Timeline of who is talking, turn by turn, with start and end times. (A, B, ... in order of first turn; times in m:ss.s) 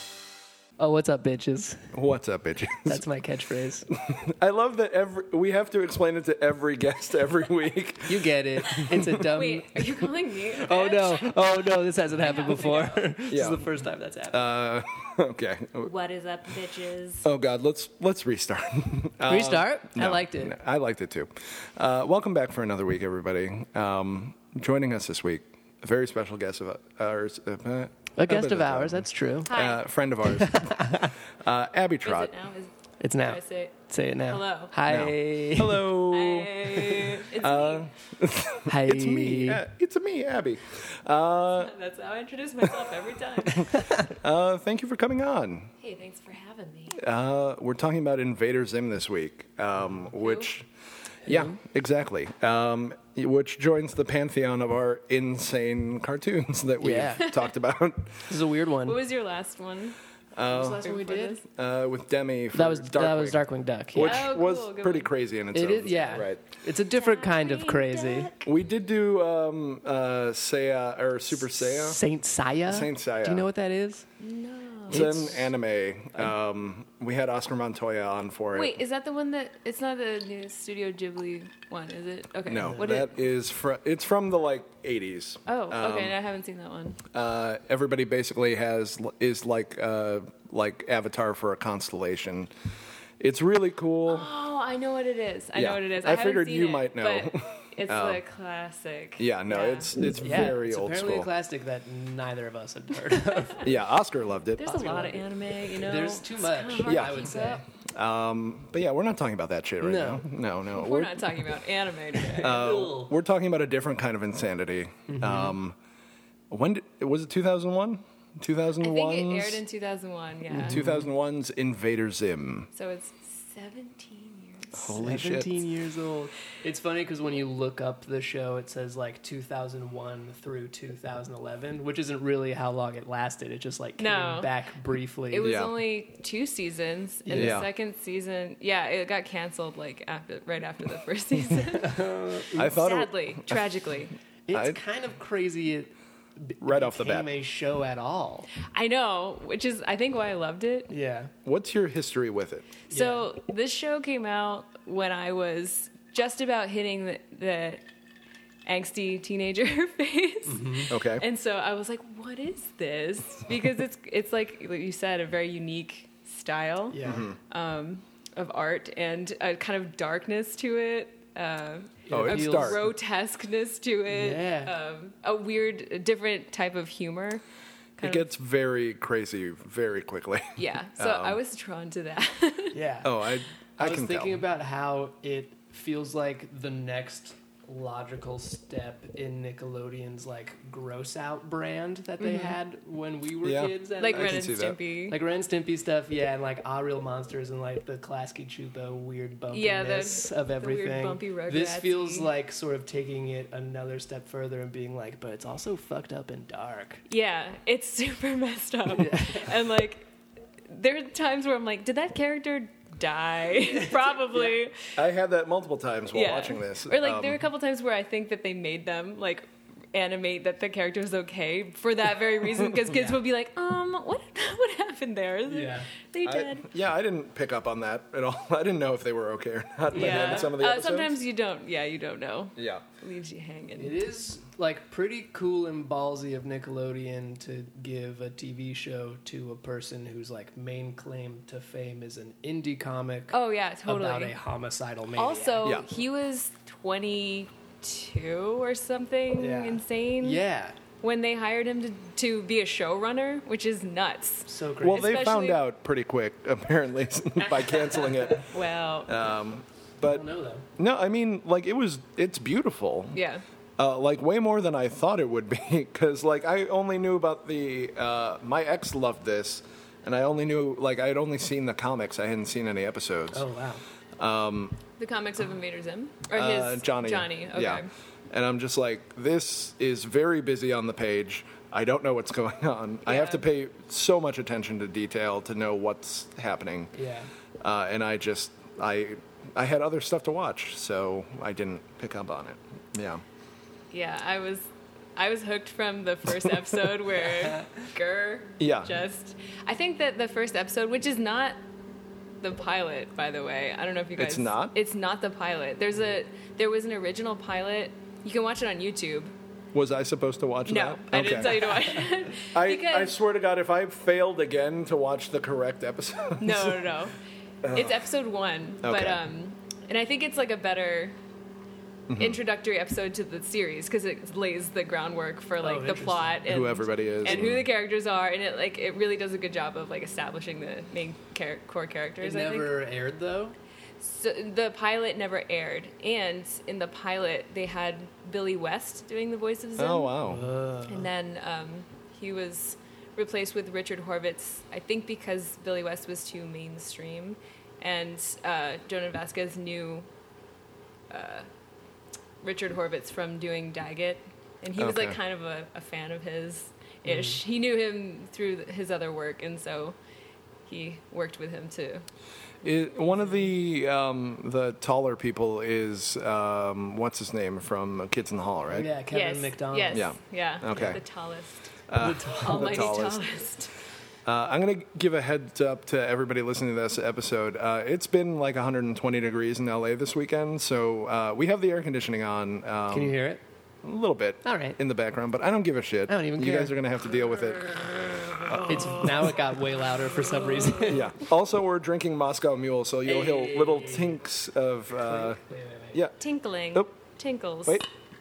0:00.8-0:01.9 A
0:01.9-0:03.0 B
0:02.8-0:03.9 A
0:03.9-0:09.0 B
0:08.0-0:09.7 A
0:09.3-0:13.1 C
0:10.6-0:14.5 A
0:13.3-0:13.7 B
0:14.3-0:15.9 B
0:15.8-0:17.2 C
0:17.2-0:32.3 B
0:19.2-0:20.6 A
0:28.2-0:29.5 A
0:29.4-0:29.8 C
0:30.3-0:31.1 A
0:32.0-0:33.7 C
0:33.0-0:35.8 A
0:34.3-0:34.7 C
0:34.8-0:41.7 B
0:36.1-0:37.9 C
0:38.6-0:39.6 A
0:41.6-0:43.8 C
0:43.5-0:45.7 B
0:43.7-0:44.0 A
0:45.8-0:47.0 C
0:46.9-0:50.7 B
0:50.2-0:50.5 C
0:51.2-0:51.6 A
0:51.2-0:58.4 B
0:56.8-0:57.2 A
0:57.2-0:57.5 C
0:58.3-0:59.0 A
0:58.8-1:00.0 C
1:00.3-1:00.8 B
1:00.5-1:01.4 A
1:00.8-1:01.4 C
1:01.5-1:06.4 B
1:02.5-1:04.3 A
1:04.0-1:05.1 C
1:05.5-1:08.3 A
1:05.9-1:06.2 C
1:06.9-1:08.5 C
1:08.4-1:12.0 B
1:11.3-1:14.0 A
1:12.7-1:13.5 B
1:14.2-1:15.4 C
1:14.9-1:18.8 B
1:18.5-1:23.2 C
1:22.4-1:26.1 B
1:25.4-1:27.0 C
1:27.1-1:32.5 B
1:33.2-1:34.3 B
1:34.1-1:39.9 C
1:35.5-1:38.2 B
1:39.2-1:41.3 B
1:40.0-1:43.6 A
1:43.6-1:44.9 B
1:44.6-1:47.6 C
1:44.7-1:47.6 A
1:46.8-1:47.3 B
1:47.9-1:51.6 B
1:49.8-1:50.2 A
1:50.7-1:52.6 C
1:52.1-1:53.1 A
1:52.4-1:55.8 B
1:55.1-1:55.6 A
1:56.5-1:59.6 B
1:58.8-2:00.8 C
2:00.5-2:01.1 A
2:00.6-2:02.7 B
2:02.7-2:04.8 C
2:04.8-2:05.6 B
2:04.9-2:15.5 A
2:14.0-2:14.5 C
2:15.3-2:22.0 C
2:15.4-2:15.8 B
2:17.2-2:17.6 A
2:17.3-2:17.7 B
2:21.7-2:22.8 A
2:22.5-2:23.9 B
2:22.6-2:24.1 C
2:24.5-2:28.5 A
2:24.5-2:24.8 B
2:26.6-2:27.3 B
2:28.7-2:30.9 C
2:30.9-2:31.3 A
2:31.4-2:32.7 B
2:32.9-2:37.8 C
2:32.9-2:33.2 A
2:38.6-2:57.4 C
2:40.4-2:40.9 A
2:40.9-2:41.2 B
2:46.9-2:47.3 A
2:47.0-2:47.4 B
2:52.1-2:52.9 A
2:52.1-2:52.8 B
2:54.1-2:54.7 A
2:58.0-2:58.3 C
2:58.0-3:01.4 B
3:00.6-3:02.8 C
3:02.7-3:03.1 A
3:03.0-3:04.4 B
3:03.8-3:14.5 A
3:12.2-3:12.6 C
3:13.4-3:14.8 B
3:14.0-3:15.2 C
3:15.1-3:27.0 A
3:19.5-3:22.3 C
3:27.1-3:30.0 C
3:28.9-3:29.5 A
3:30.7-3:34.9 C
3:33.6-3:34.6 A
3:35.0-3:37.4 B
3:36.1-3:46.7 C
3:42.9-3:43.2 A
3:45.5-3:45.9 A
3:46.2-3:51.2 B
3:49.9-3:50.5 A
3:49.9-3:54.0 C
3:52.6-3:52.8 B
3:53.8-4:05.7 A
4:03.3-4:04.4 C
4:05.2-4:10.4 C
4:09.4-4:10.8 A
4:11.0-4:15.6 C
4:14.4-4:15.2 A
4:14.8-4:18.5 B
4:17.4-4:18.4 A
4:18.5-4:19.1 C
4:19.0-4:20.2 B
4:20.0-4:20.6 A
4:20.8-4:23.2 B
4:23.1-4:23.4 C
4:23.8-4:33.5 B
4:33.3-4:33.8 A
4:34.2-4:34.8 B
4:35.0-4:37.9 C
4:36.3-4:46.9 B
4:43.0-4:43.4 C
4:46.9-4:47.3 A
4:47.6-4:53.2 B
4:53.9-5:01.6 C
4:57.3-4:57.9 A
4:58.6-4:58.9 B
5:02.4-5:09.3 C
5:04.2-5:04.7 B
5:09.7-5:11.7 B
5:10.7-5:13.1 C
5:12.5-5:16.9 B
5:16.4-5:17.2 C
5:17.6-5:18.0 B
5:17.7-5:21.2 C
5:18.8-5:19.2 B
5:22.1-5:22.4 B
5:22.2-5:32.7 C
5:25.6-5:26.4 A
5:26.5-5:27.7 B
5:32.2-5:33.6 A
5:34.0-5:40.1 C
5:39.8-5:40.5 B
5:40.2-5:41.1 A
5:40.8-5:50.0 C
5:51.1-5:51.5 C
5:52.4-6:00.0 C
5:54.8-5:55.2 B
5:57.0-5:57.4 A
6:00.6-6:02.0 C
6:02.6-6:08.9 B
6:08.7-6:10.1 A
6:09.1-6:13.7 C
6:09.9-6:11.0 B
6:11.9-6:13.3 B
6:12.0-6:13.0 A
6:14.2-6:23.1 B
6:22.9-6:23.4 A
6:23.8-6:29.3 B
6:24.4-6:24.8 A
6:26.1-6:26.7 A
6:28.7-6:31.1 A
6:30.6-6:31.0 C
6:30.9-6:35.4 B
6:33.0-6:34.2 A
6:35.0-6:36.0 A
6:35.9-6:36.2 B
6:36.2-6:37.8 C